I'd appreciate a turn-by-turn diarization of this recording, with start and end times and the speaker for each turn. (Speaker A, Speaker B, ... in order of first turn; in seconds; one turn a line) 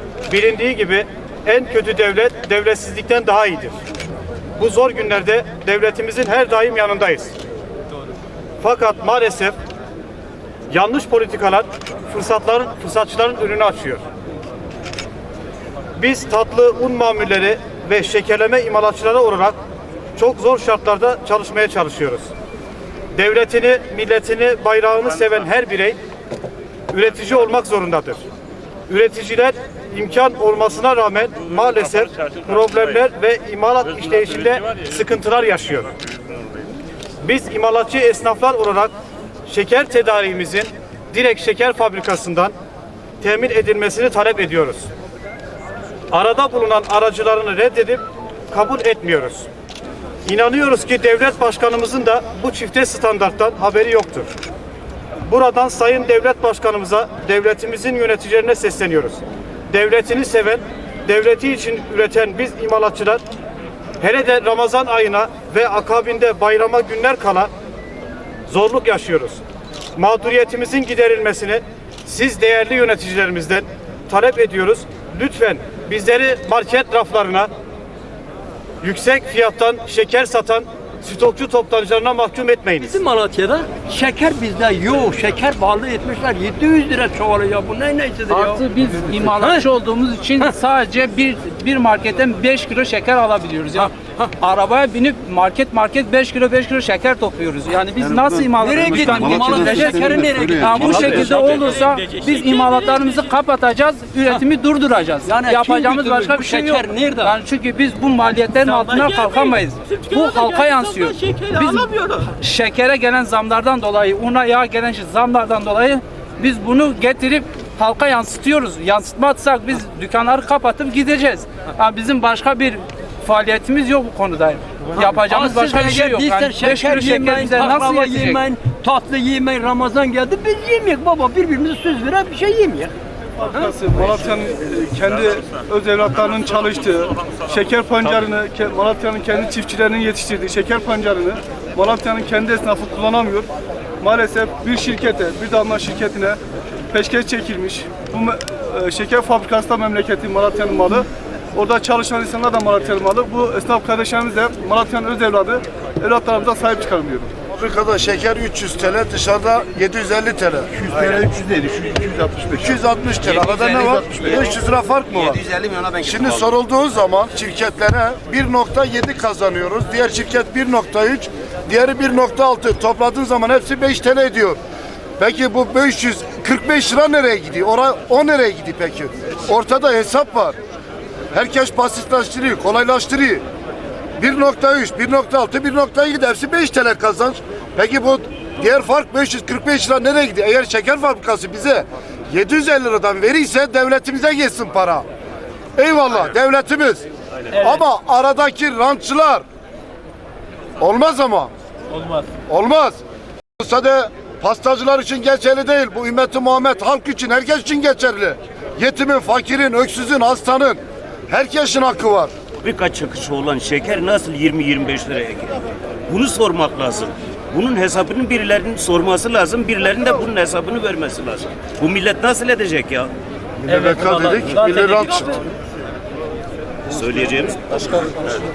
Speaker A: 0.3-3.7
Speaker A: 4.6-7.3
Speaker A: 8.6-9.6
Speaker A: 10.7-14.0
Speaker A: 16.0-19.6
Speaker A: 20.1-22.3
Speaker A: 23.1-26.0
Speaker A: 26.9-28.2
Speaker A: 28.9-35.9
Speaker A: 37.2-38.9
Speaker A: 39.5-42.5
Speaker A: 43.2-44.9
Speaker A: 46.1-49.5
Speaker A: 50.3-54.3
Speaker A: 55.3-63.2
Speaker A: 64.0-67.5
Speaker A: 68.5-69.4
Speaker A: 70.0-77.5
Speaker A: 78.8-83.0
Speaker B: 82.8-88.6
Speaker C: 88.3-128.4
Speaker B: 89.3-89.7
Speaker D: 98.1-101.2
Speaker B: 98.5-103.3
Speaker B: 105.2-107.3
Speaker B: 108.6-112.3
Speaker B: 125.0-132.9
Speaker E: 133.4-143.5
Speaker B: 133.5-134.2
Speaker E: 144.0-146.4
Speaker E: 146.9-157.3
Speaker F: 157.5-160.7
Speaker D: 160.8-164.5
Speaker F: 162.6-174.6
Speaker D: 165.2-166.3
Speaker F: 175.2-180.6
Speaker F: 181.3-183.4
Speaker F: 184.2-195.1
Speaker F: 195.8-199.4
Speaker F: 200.8-201.5
Speaker F: 202.5-203.0
Speaker F: 203.6-212.3
Speaker G: 212.6-223.1
Speaker F: 223.7-225.4
Speaker B: 223.7-225.1
Speaker G: 226.9-228.3